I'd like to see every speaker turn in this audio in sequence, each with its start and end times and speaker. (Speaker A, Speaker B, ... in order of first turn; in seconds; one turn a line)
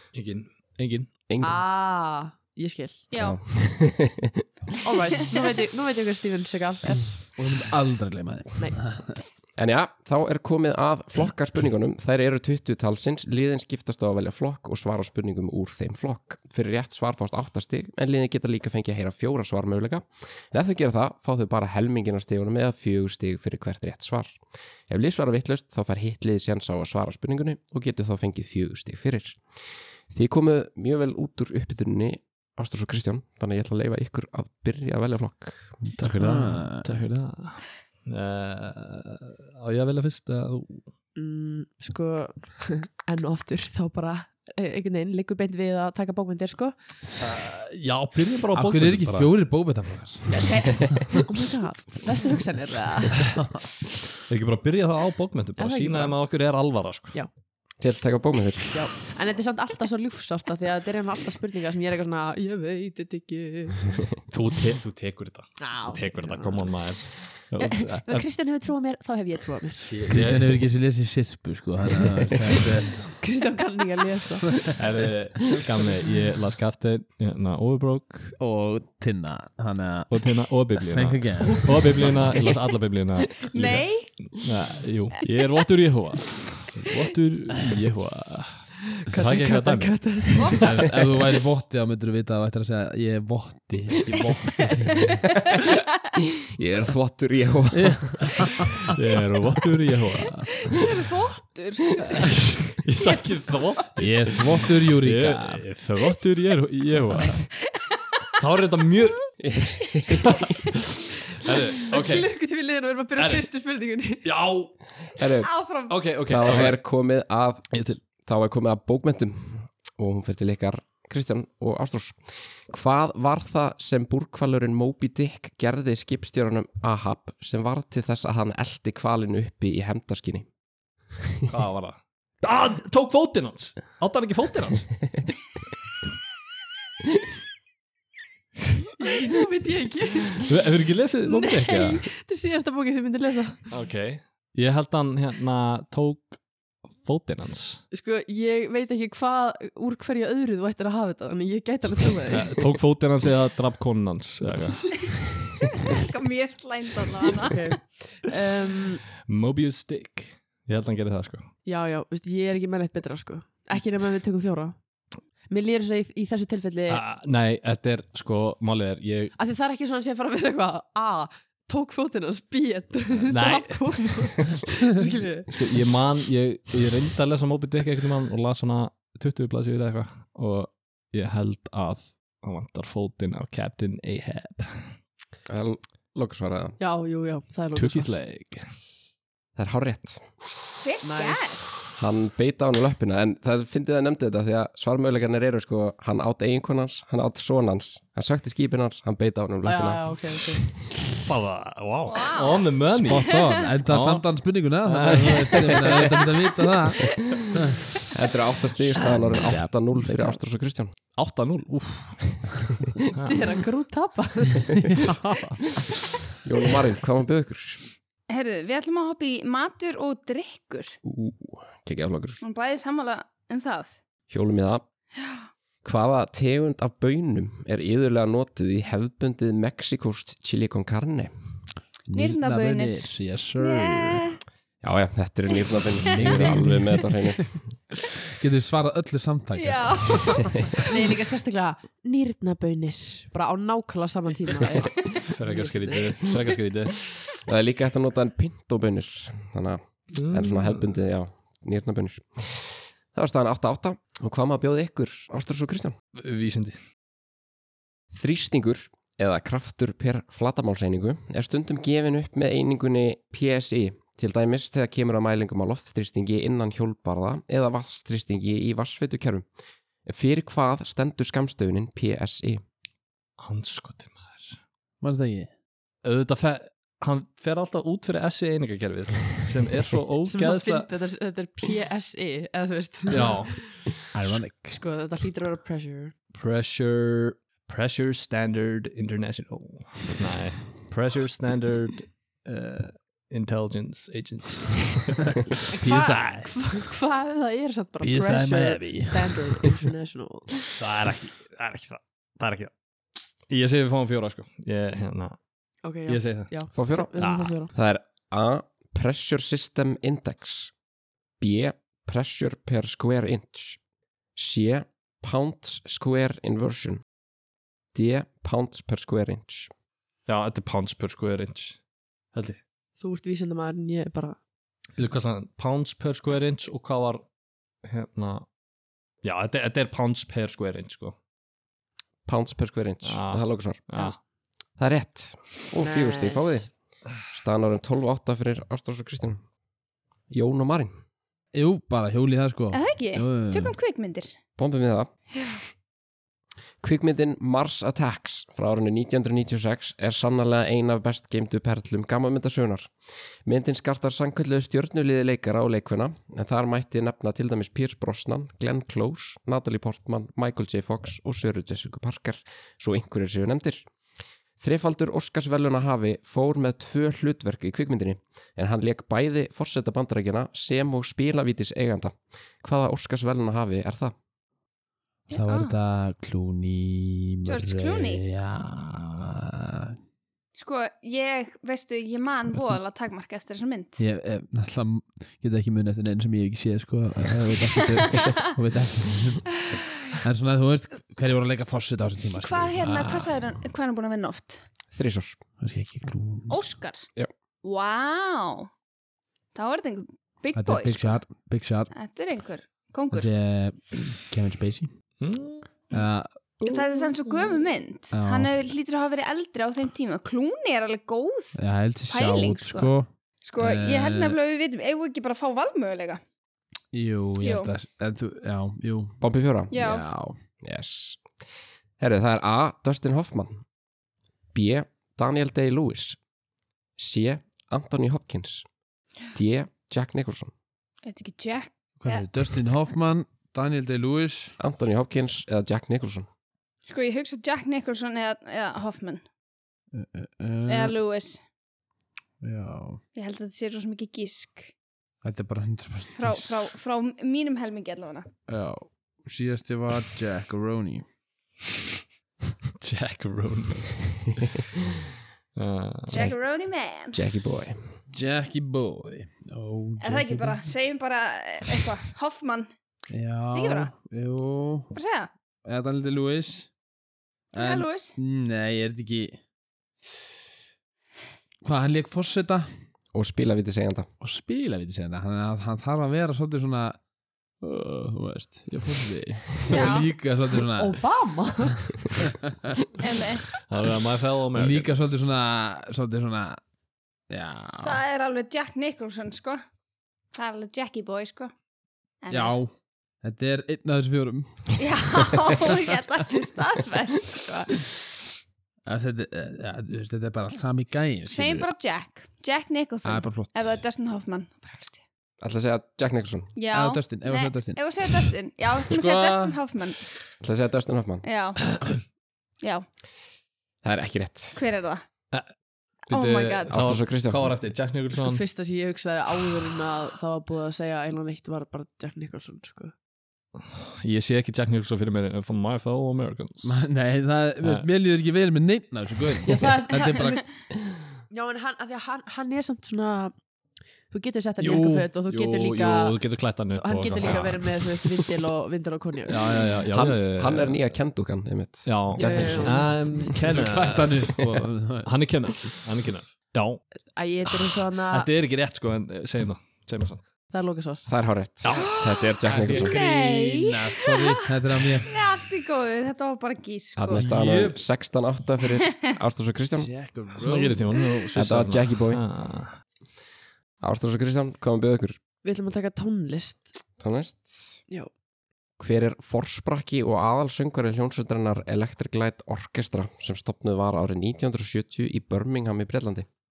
Speaker A: 0.1-1.2
Speaker B: 1.3-1.6
Speaker C: 1.4-3.1
Speaker D: 3.1-3.4
Speaker B: 3.1-4.4
Speaker C: 4.8-7.3
Speaker E: 7.3-9.2
Speaker B: 9.6-35.8
Speaker E: 35.9-36.9
Speaker A: 36.0-40.9
Speaker C: 41.1-46.8
Speaker A: 47.2-49.4
Speaker E: 48.5-51.0
Speaker C: 50.3-53.5
Speaker A: 54.3-57.2
Speaker C: 55.6-56.6
Speaker B: 57.8-58.8
Speaker C: 58.7-64.2
Speaker A: 64.3-68.3
Speaker C: 65.6-70.0
Speaker A: 69.9-70.6
Speaker E: 70.1-73.2
Speaker C: 73.0-74.8
Speaker A: 74.6-78.4
Speaker E: 78.4-82.2
Speaker A: 80.1-90.8
Speaker D: 83.5-84.3
Speaker C: 89.0-90.8
Speaker E: 90.6-95.2
Speaker B: 96.6-98.3
Speaker E: 97.7-98.3
Speaker A: 98.9-100.6
Speaker D: 100.7-102.2
Speaker A: 102.1-107.5
Speaker E: 104.0-105.6
Speaker D: 107.7-108.2
Speaker A: 108.4-109.5
Speaker B: 109.4-110.2
Speaker A: 110.2-112.3
Speaker C: 111.5-114.3
Speaker A: 113.2-113.5
Speaker A: 114.2-114.8
Speaker B: 115.2-130.5
Speaker D: 115.4-116.0
Speaker A: 115.9-116.8
Speaker A: 117.7-118.0
Speaker A: 131.5-135.2
Speaker C: 138.9-140.5
Speaker A: 140.3-142.0
Speaker C: 141.3-143.7
Speaker A: 143.7-147.8
Speaker C: 147.9-152.7
Speaker A: 152.3-155.3
Speaker D: 155.9-157.7
Speaker C: 157.4-159.0
Speaker A: 159.2-161.5
Speaker C: 161.6-167.0
Speaker A: 166.9-169.3
Speaker C: 169.4-175.9
Speaker A: 173.2-174.5
Speaker A: 175.5-185.0
Speaker B: 185.5-186.8
Speaker C: 186.8-188.2
Speaker A: 187.7-188.8
Speaker B: 189.6-190.4
Speaker D: 190.8-191.7
Speaker C: 191.0-191.6
Speaker B: 192.0-200.7
Speaker C: 199.6-200.8
Speaker A: 201.2-206.4
Speaker D: 202.1-203.5
Speaker E: 203.0-207.8
Speaker B: 208.1-210.9
Speaker E: 209.1-210.4
Speaker A: 211.1-212.4
Speaker A: 213.1-213.4
Speaker C: 213.2-215.4
Speaker E: 215.1-215.4
Speaker B: 216.4-217.8
Speaker D: 218.3-221.0
Speaker B: 221.0-222.4
Speaker D: 222.4-224.0
Speaker B: 224.3-224.8
Speaker D: 225.1-225.5
Speaker B: 225.8-231.3
Speaker E: 232.1-234.3
Speaker D: 232.1-234.4
Speaker B: 234.8-237.8
Speaker E: 236.1-237.4
Speaker E: 238.3-240.5
Speaker D: 239.6-240.8
Speaker C: 240.9-246.6
Speaker A: 245.3-247.0
Speaker B: 247.4-255.9
Speaker A: 250.1-250.9
Speaker A: 256.1-256.8
Speaker B: 258.1-269.4
Speaker B: 270.1-272.6
Speaker A: 273.4-274.6
Speaker E: 275.0-275.5
Speaker A: 276.0-280.9
Speaker C: 280.2-283.9
Speaker A: 283.1-283.6
Speaker E: 284.1-284.8
Speaker C: 284.7-286.1
Speaker A: 286.3-296.4
Speaker C: 295.7-300.6
Speaker E: 295.8-296.5
Speaker E: 298.0-299.5
Speaker A: 300.8-302.7
Speaker A: 303.4-306.6
Speaker C: 305.8-307.7
Speaker B: 306.7-310.7
Speaker A: 307.1-307.5
Speaker B: 311.4-313.8
Speaker B: 314.4-317.0
Speaker B: 317.9-319.7
Speaker A: 320.2-321.8
Speaker A: 322.3-322.6
Speaker C: 323.0-324.4
Speaker A: 325.0-327.3
Speaker A: 327.8-328.5
Speaker A: 329.2-331.2
Speaker B: 332.2-333.9
Speaker A: 333.0-334.2
Speaker B: 334.8-336.7
Speaker C: 335.8-336.6
Speaker B: 337.2-339.4
Speaker B: 340.3-340.9
Speaker E: 341.5-343.8
Speaker D: 342.7-344.4
Speaker B: 344.6-345.1
Speaker D: 345.4-345.6
Speaker B: 346.8-363.9
Speaker B: 364.6-374.1
Speaker D: 375.3-375.7
Speaker E: 375.3-379.9
Speaker D: 377.4-378.2
Speaker D: 380.6-384.0
Speaker E: 384.0-389.6
Speaker E: 390.1-393.4
Speaker D: 392.4-394.6
Speaker B: 394.9-395.4
Speaker E: 395.6-396.6
Speaker D: 396.5-397.0
Speaker D: 397.6-398.7
Speaker D: 399.5-401.2
Speaker E: 400.5-401.9
Speaker D: 401.9-403.3
Speaker E: 403.1-404.9
Speaker A: 405.2-405.8
Speaker E: 405.9-406.4
Speaker D: 406.6-411.6
Speaker E: 408.1-408.5
Speaker E: 411.5-414.4
Speaker D: 412.1-416.2
Speaker E: 416.9-420.4
Speaker D: 417.4-417.7
Speaker B: 419.2-419.7
Speaker D: 419.7-420.1
Speaker B: 420.6-421.4
Speaker B: 422.0-423.6
Speaker B: 424.5-426.2
Speaker B: 427.0-428.6
Speaker B: 429.3-430.5
Speaker D: 431.0-432.3
Speaker E: 432.0-434.6
Speaker B: 434.6-436.2
Speaker D: 436.9-439.2
Speaker E: 439.9-440.9
Speaker D: 440.7-441.4
Speaker E: 442.4-443.0
Speaker D: 443.1-444.7
Speaker E: 445.2-446.5
Speaker D: 446.2-448.3
Speaker E: 448.5-451.0
Speaker A: 452.8-454.4
Speaker A: 455.5-456.3
Speaker D: 456.1-457.2
Speaker B: 457.1-457.8
Speaker E: 458.1-460.6
Speaker D: 460.0-462.7
Speaker E: 463.1-464.9
Speaker D: 463.5-463.9
Speaker D: 464.9-465.3
Speaker E: 465.6-466.7
Speaker D: 467.5-468.1
Speaker E: 467.5-469.4
Speaker E: 471.6-472.7
Speaker B: 473.1-474.1
Speaker E: 474.2-477.0
Speaker E: 477.6-481.0
Speaker D: 479.7-480.1
Speaker C: 480.8-482.1
Speaker D: 483.0-483.5
Speaker A: 483.7-485.4
Speaker E: 484.5-486.6
Speaker E: 487.3-488.0
Speaker D: 487.8-489.6
Speaker D: 490.3-491.5
Speaker D: 492.2-492.5
Speaker E: 492.3-494.8
Speaker D: 494.8-497.9
Speaker E: 498.9-501.7
Speaker D: 501.3-505.0
Speaker E: 503.0-503.8
Speaker B: 505.4-506.5
Speaker D: 506.6-510.0
Speaker E: 506.7-507.8
Speaker E: 508.9-509.6
Speaker B: 510.4-511.2
Speaker D: 511.2-511.6
Speaker D: 512.6-512.9
Speaker B: 513.8-514.6
Speaker D: 514.6-515.0
Speaker A: 516.1-518.4
Speaker D: 516.1-516.9
Speaker B: 516.7-517.5
Speaker C: 518.1-522.9
Speaker A: 523.8-526.8
Speaker E: 526.6-530.5
Speaker A: 527.6-527.9
Speaker C: 529.5-530.4
Speaker C: 531.3-533.5
Speaker C: 534.1-539.6
Speaker A: 534.6-538.3
Speaker A: 539.2-540.9
Speaker B: 539.9-542.9
Speaker A: 541.8-544.4
Speaker C: 542.2-543.4
Speaker E: 543.4-545.1
Speaker A: 545.0-546.8
Speaker C: 547.1-548.3
Speaker A: 548.0-550.3
Speaker C: 550.5-551.1
Speaker B: 551.1-552.9
Speaker A: 551.6-551.9
Speaker D: 551.7-554.3
Speaker E: 552.5-555.1
Speaker D: 555.0-557.2
Speaker B: 557.0-559.9
Speaker E: 557.1-557.8
Speaker E: 559.8-560.9
Speaker A: 560.4-562.8
Speaker B: 561.3-562.2
Speaker B: 563.8-565.2
Speaker C: 565.4-566.8
Speaker B: 567.0-567.8
Speaker B: 568.8-576.3